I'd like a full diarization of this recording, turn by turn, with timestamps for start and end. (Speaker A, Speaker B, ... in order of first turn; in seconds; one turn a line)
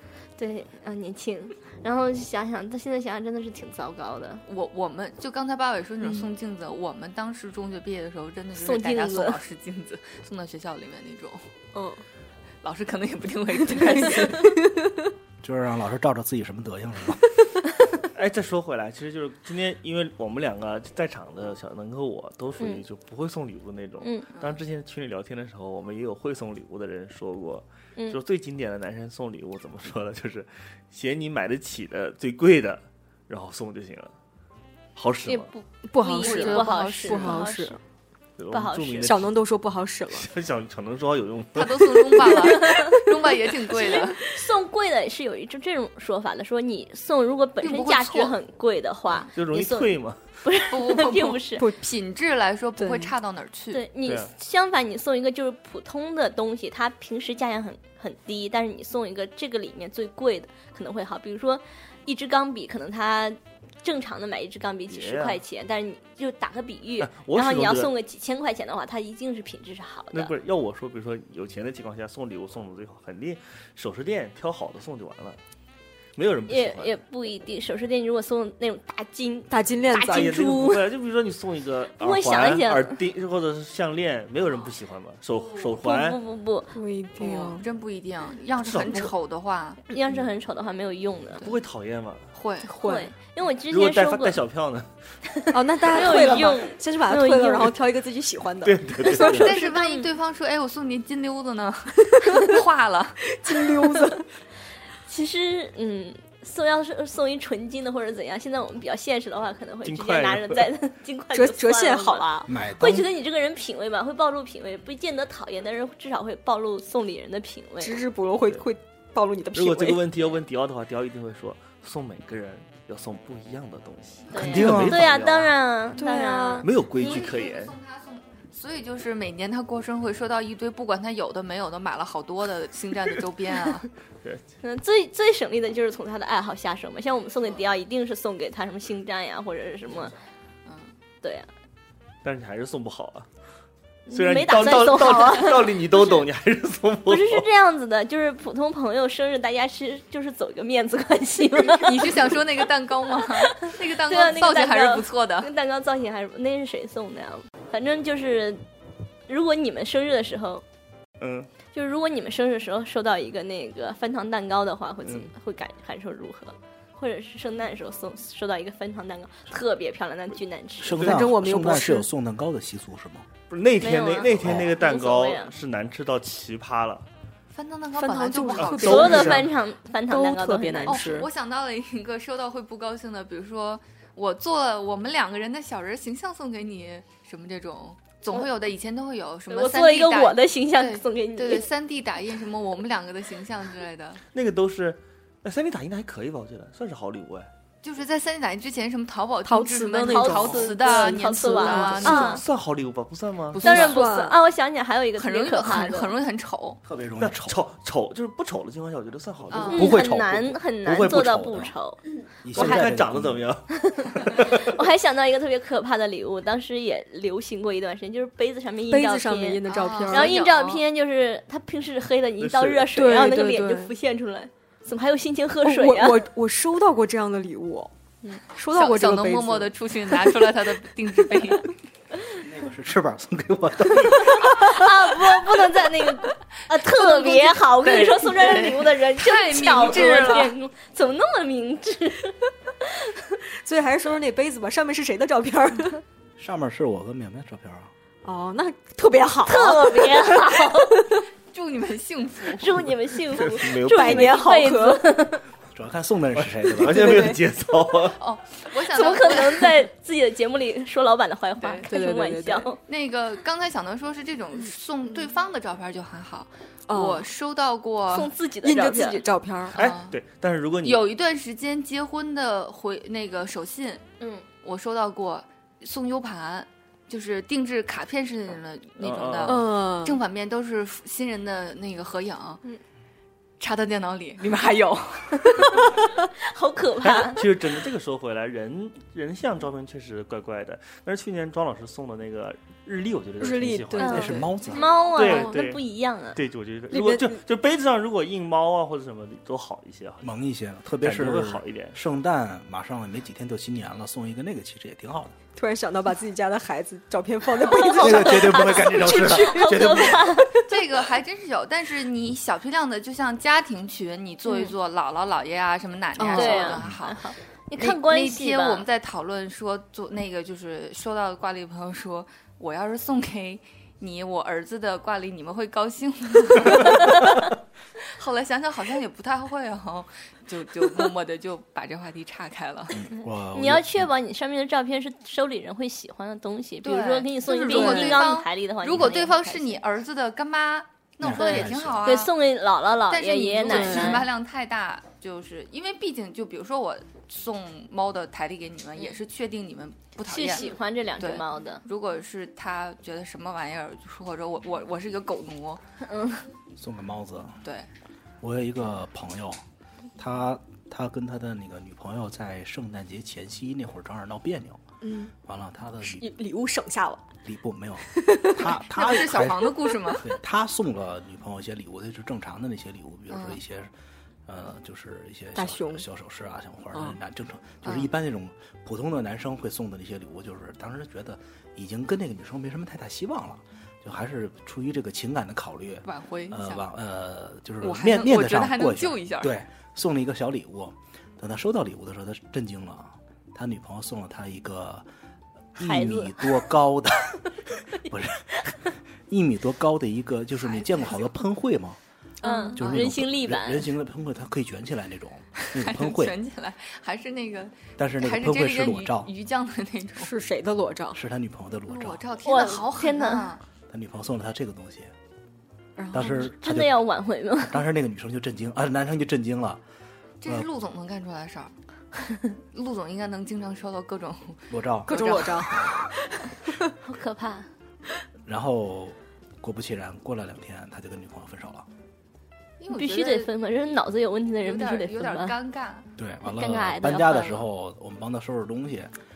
Speaker A: 0.4-4.5
Speaker B: 4.5-11.5
Speaker A: 8.6-9.4
Speaker C: 11.7-12.0
Speaker B: 12.6-14.6
Speaker C: 13.7-15.1
Speaker D: 15.4-17.3
Speaker E: 18.1-34.1
Speaker A: 24.0-24.3
Speaker E: 35.0-35.5
Speaker A: 35.3-37.8
Speaker C: 35.9-37.8
Speaker B: 36.2-37.5
Speaker E: 38.4-39.3
Speaker A: 38.5-39.2
Speaker C: 39.0-40.3
Speaker E: 40.1-42.3
Speaker B: 41.5-44.3
Speaker A: 42.5-43.0
Speaker A: 43.7-51.7
Speaker B: 47.6-48.4
Speaker E: 49.4-50.2
Speaker B: 50.7-53.8
Speaker C: 52.8-53.1
Speaker A: 53.7-70.3
Speaker E: 64.9-65.4
Speaker E: 67.0-67.9
Speaker E: 70.1-75.4
Speaker E: 76.2-77.0
Speaker A: 76.5-80.8
Speaker C: 79.5-80.4
Speaker E: 80.0-86.2
Speaker A: 82.0-83.0
Speaker A: 85.8-86.8
Speaker C: 86.7-87.7
Speaker B: 87.2-89.8
Speaker E: 88.6-89.1
Speaker A: 89.9-91.5
Speaker E: 91.4-92.3
Speaker B: 92.3-92.7
Speaker C: 92.7-93.1
Speaker A: 92.8-94.4
Speaker E: 93.7-94.9
Speaker A: 95.4-97.8
Speaker C: 95.5-99.5
Speaker E: 98.6-99.5
Speaker A: 99.0-100.1
Speaker B: 99.2-103.2
Speaker C: 103.2-104.3
Speaker A: 105.1-118.0
Speaker E: 109.8-110.7
Speaker C: 111.3-112.5
Speaker D: 112.5-113.1
Speaker C: 117.8-120.0
Speaker E: 119.5-125.5
Speaker A: 124.3-126.7
Speaker D: 124.4-125.0
Speaker C: 126.0-126.7
Speaker E: 126.6-127.8
Speaker B: 126.9-133.9
Speaker A: 134.6-140.2
Speaker B: 140.7-140.9
Speaker A: 141.2-141.5
Speaker E: 142.2-143.3
Speaker A: 144.1-146.2
Speaker E: 144.1-147.5
Speaker A: 147.1-152.4
Speaker B: 151.6-155.5
Speaker A: 153.4-158.6
Speaker A: 159.3-160.6
Speaker E: 161.2-161.5
Speaker A: 161.7-171.1
Speaker D: 170.8-173.3
Speaker C: 171.0-172.1
Speaker E: 173.5-177.1
Speaker A: 173.8-175.5
Speaker D: 174.4-174.8
Speaker B: 177.5-179.4
Speaker C: 177.9-179.5
Speaker E: 178.6-179.5
Speaker A: 178.8-181.2
Speaker C: 180.1-181.3
Speaker B: 180.9-194.2
Speaker A: 189.5-191.7
Speaker E: 194.3-197.5
Speaker B: 197.8-202.4
Speaker C: 199.4-202.4
Speaker A: 200.1-202.4
Speaker E: 202.1-203.7
Speaker B: 203.5-204.0
Speaker C: 203.6-204.4
Speaker A: 203.6-206.1
Speaker B: 205.2-206.8
Speaker D: 206.8-207.6
Speaker E: 207.2-209.9
Speaker B: 209.5-210.0
Speaker D: 209.7-211.8
Speaker A: 209.7-212.0
Speaker D: 212.4-213.5
Speaker E: 212.5-214.7
Speaker A: 213.7-226.2
Speaker C: 218.9-220.4
Speaker B: 219.7-220.8
Speaker E: 222.4-222.9
Speaker C: 222.9-223.9
Speaker C: 225.6-227.9
Speaker C: 228.5-230.4
Speaker B: 228.7-231.7
Speaker D: 232.3-234.5
Speaker A: 234.1-243.2
Speaker B: 236.7-240.6
Speaker C: 243.6-246.0
Speaker D: 246.4-247.9
Speaker C: 248.2-251.2
Speaker A: 249.4-251.1
Speaker B: 251.5-252.8
Speaker A: 252.6-255.4
Speaker E: 253.4-254.4
Speaker C: 253.7-255.2
Speaker D: 255.7-257.3
Speaker E: 256.4-258.2
Speaker C: 256.9-257.4
Speaker B: 258.2-259.8
Speaker A: 258.9-262.8
Speaker B: 261.6-261.9
Speaker C: 261.9-262.7
Speaker B: 262.9-268.3
Speaker C: 266.9-267.3
Speaker A: 268.1-269.2
Speaker C: 268.6-269.8
Speaker B: 269.7-270.2
Speaker E: 269.7-271.1
Speaker B: 270.8-274.0
Speaker A: 274.2-274.5
Speaker B: 274.6-282.6
Speaker E: 279.0-279.6
Speaker C: 279.4-280.2
Speaker B: 283.6-286.0
Speaker A: 286.4-287.5
Speaker E: 287.0-294.4
Speaker C: 293.4-294.5
Speaker D: 294.0-294.9
Speaker A: 294.0-296.4
Speaker E: 295.1-295.8
Speaker C: 295.2-295.6
Speaker E: 296.4-300.3
Speaker C: 296.9-297.4
Speaker D: 300.2-305.4
Speaker E: 301.0-302.0
Speaker C: 305.6-310.6
Speaker A: 307.6-310.6
Speaker D: 308.0-310.4
Speaker B: 310.6-327.5
Speaker C: 316.2-316.8
Speaker A: 316.3-318.9
Speaker B: 328.0-333.1
Speaker D: 332.9-334.1
Speaker A: 333.5-339.8
Speaker B: 336.8-342.4
Speaker C: 337.7-338.3
Speaker D: 341.2-342.1
Speaker A: 341.4-344.3
Speaker B: 343.1-355.8
Speaker C: 343.7-344.3
Speaker A: 350.2-351.8
Speaker A: 356.0-356.5
Speaker D: 356.8-357.6
Speaker D: 358.4-359.6
Speaker D: 360.1-364.8
Speaker C: 365.0-365.3
Speaker D: 365.4-366.3
Speaker C: 366.1-367.3
Speaker D: 367.4-373.9
Speaker C: 368.1-368.7
Speaker B: 368.9-370.3
Speaker B: 373.3-373.6
Speaker D: 374.5-395.1
Speaker C: 375.6-376.1
Speaker B: 386.1-386.9
Speaker B: 387.8-389.6
Speaker D: 395.8-398.7
Speaker A: 395.8-396.6
Speaker D: 399.3-402.0
Speaker B: 400.6-401.2
Speaker C: 402.4-402.8
Speaker A: 402.4-403.9
Speaker D: 402.8-406.4
Speaker B: 405.7-410.3
Speaker D: 408.0-409.3
Speaker C: 410.2-411.2
Speaker D: 411.1-412.2
Speaker B: 411.9-413.6
Speaker A: 412.4-413.5
Speaker D: 413.9-415.1
Speaker C: 416.0-416.4
Speaker D: 416.1-417.0
Speaker A: 416.2-417.8
Speaker D: 417.6-419.8
Speaker B: 420.4-421.7
Speaker B: 422.7-425.9
Speaker D: 424.7-426.1
Speaker C: 425.1-426.9
Speaker A: 427.0-427.7
Speaker D: 428.5-431.9
Speaker B: 432.8-433.5
Speaker A: 432.9-435.6
Speaker B: 434.6-436.1
Speaker D: 436.2-439.1
Speaker A: 436.4-437.6